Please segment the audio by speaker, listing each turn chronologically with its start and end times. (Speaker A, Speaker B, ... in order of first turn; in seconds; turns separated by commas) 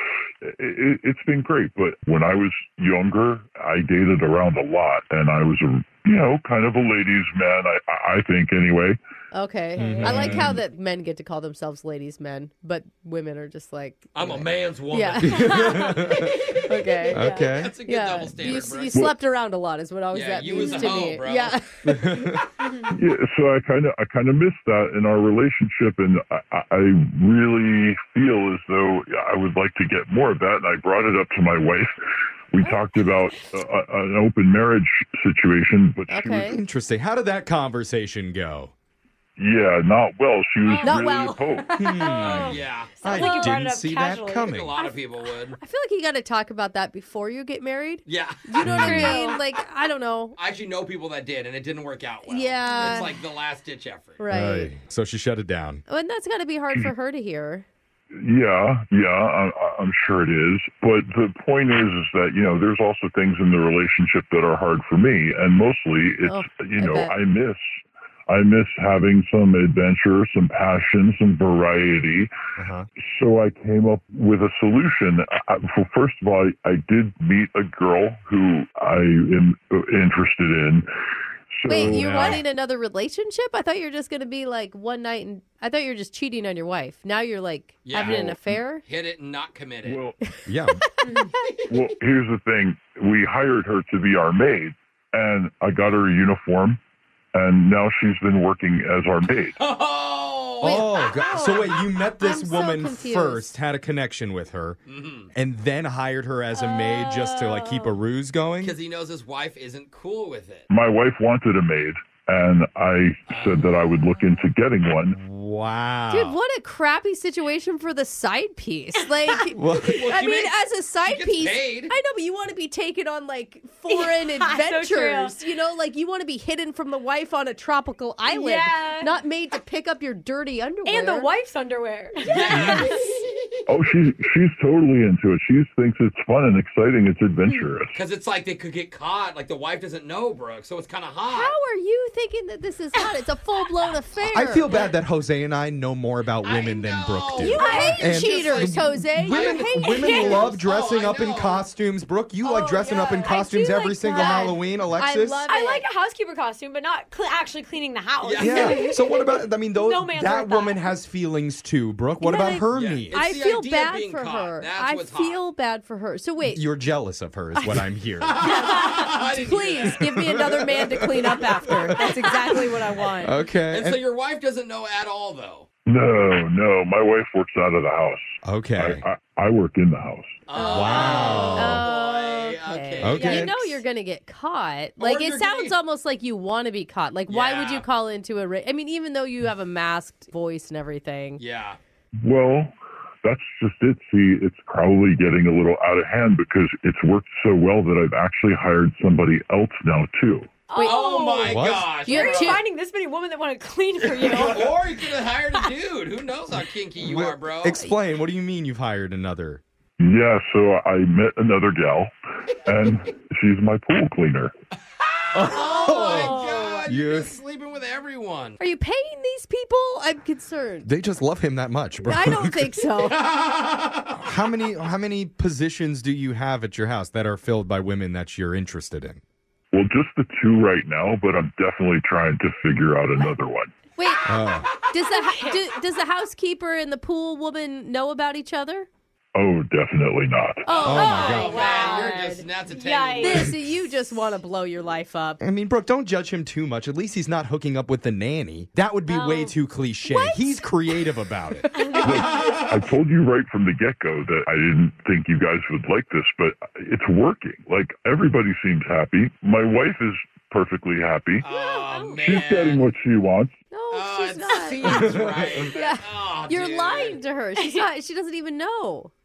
Speaker A: 0.4-9.0, Speaker B: 9.3-15.8, Speaker C: 9.8-10.5, Speaker D: 9.8-10.6, Speaker E: 14.1-15.7, Speaker D: 15.2-16.4, Speaker C: 15.4-16.3, Speaker B: 16.6-22.0, Speaker C: 16.9-17.5, Speaker D: 17.1-17.8, Speaker E: 17.3-19.0, Speaker E: 20.1-21.6, Speaker C: 20.5-21.0, Speaker D: 21.8-22.4, Speaker A: 22.9-31.9, Speaker A: 32.5-36.5, Speaker B: 36.1-36.6, Speaker D: 36.4-38.7, Speaker A: 39.4-41.7, Speaker C: 40.6-45.0, Speaker B: 40.8-41.6, Speaker D: 41.8-44.7, Speaker E: 42.2-43.5, Speaker E: 44.4-45.6, Speaker B: 45.6-50.3, Speaker E: 48.0-48.7, Speaker D: 48.6-49.1, Speaker C: 48.7-49.4, Speaker E: 50.4-54.2, Speaker B: 52.3-53.1, Speaker C: 52.7-53.0, Speaker B: 54.2-54.7, Speaker D: 54.3-55.8, Speaker B: 55.9-57.6, Speaker A: 58.1-67.6, Speaker B: 66.2-67.1, Speaker A: 68.3-72.3, Speaker D: 72.6-72.9, Speaker A: 73.1-80.9, Speaker A: 81.5-82.4, Speaker B: 81.7-88.8, Speaker D: 81.9-82.4, Speaker E: 87.8-90.0, Speaker A: 89.8-90.2, Speaker D: 90.5-90.8, Speaker A: 91.7-96.8, Speaker A: 97.3-99.6, Speaker E: 99.6-100.9, Speaker D: 100.6-104.8, Speaker B: 100.6-100.9, Speaker C: 101.1-101.6, Speaker B: 102.2-103.5, Speaker E: 104.9-105.3, Speaker D: 105.3-108.8, Speaker C: 106.5-108.0, Speaker E: 108.6-110.7, Speaker A: 110.7-115.2, Speaker E: 113.3-114.0, Speaker D: 115.1-116.4, Speaker B: 116.1-131.3, Speaker D: 119.5-120.0, Speaker E: 119.8-121.9, Speaker C: 123.9-125.4, Speaker C: 128.3-129.2, Speaker C: 130.8-133.2, Speaker E: 132.2-133.0, Speaker A: 133.7-137.9, Speaker E: 137.9-141.5, Speaker B: 141.3-144.8, Speaker D: 144.3-155.4, Speaker E: 146.4-151.6, Speaker C: 147.4-148.2, Speaker B: 147.4-150.4, Speaker C: 149.8-150.5, Speaker C: 152.4-154.6, Speaker B: 154.0-155.8, Speaker C: 155.5-160.8, Speaker E: 158.2-158.9, Speaker D: 158.4-163.2, Speaker B: 162.2-166.6, Speaker E: 162.7-165.4, Speaker D: 166.5-168.4, Speaker E: 168.2-170.1, Speaker C: 168.6-169.0, Speaker B: 168.7-173.4, Speaker D: 170.0-172.2, Speaker C: 172.0-172.3, Speaker D: 173.2-174.0, Speaker E: 173.7-175.7, Speaker A: 175.9-180.4, Speaker D: 178.4-179.0, Speaker E: 180.5-183.5, Speaker B: 180.5-191.4, Speaker D: 180.7-181.8, Speaker C: 180.8-181.5, Speaker D: 183.0-183.6, Speaker C: 183.2-183.5, Speaker E: 185.0-185.8, Speaker E: 187.3-187.8, Speaker E: 191.4-191.8, Speaker A: 192.2-200.5, Speaker C: 200.7-204.8, Speaker B: 200.7-201.1, Speaker E: 200.8-202.6, Speaker D: 201.5-201.9, Speaker B: 201.9-202.6, Speaker E: 204.1-207.8, Speaker D: 207.0-209.6, Speaker A: 210.0-212.1, Speaker A: 212.6-214.5, Speaker E: 215.0-218.6, Speaker D: 215.3-217.3, Speaker C: 215.7-216.8, Speaker B: 218.6-220.9, Speaker D: 220.8-222.7, Speaker B: 222.0-223.3, Speaker E: 223.0-224.2, Speaker D: 224.2-229.2, Speaker A: 229.7-233.7, Speaker B: 234.0-234.3, Speaker D: 234.2-234.7, Speaker B: 234.9-238.9, Speaker C: 234.9-235.6, Speaker A: 239.3-240.7, Speaker C: 240.7-243.5, Speaker E: 240.7-243.5, Speaker B: 240.7-241.9, Speaker D: 240.8-241.6, Speaker B: 243.2-245.4, Speaker D: 245.4-251.7, Speaker C: 249.1-249.5, Speaker C: 250.1-250.4, Speaker C: 251.8-252.3, Speaker E: 252.0-252.9, Speaker A: 252.0-261.4, Speaker E: 261.4-262.9, Speaker C: 261.5-262.2, Speaker A: 262.2-263.6, Speaker B: 263.7-265.1, Speaker E: 263.9-267.2, Speaker D: 264.9-265.6, Speaker B: 265.7-269.1, Speaker C: 267.6-267.9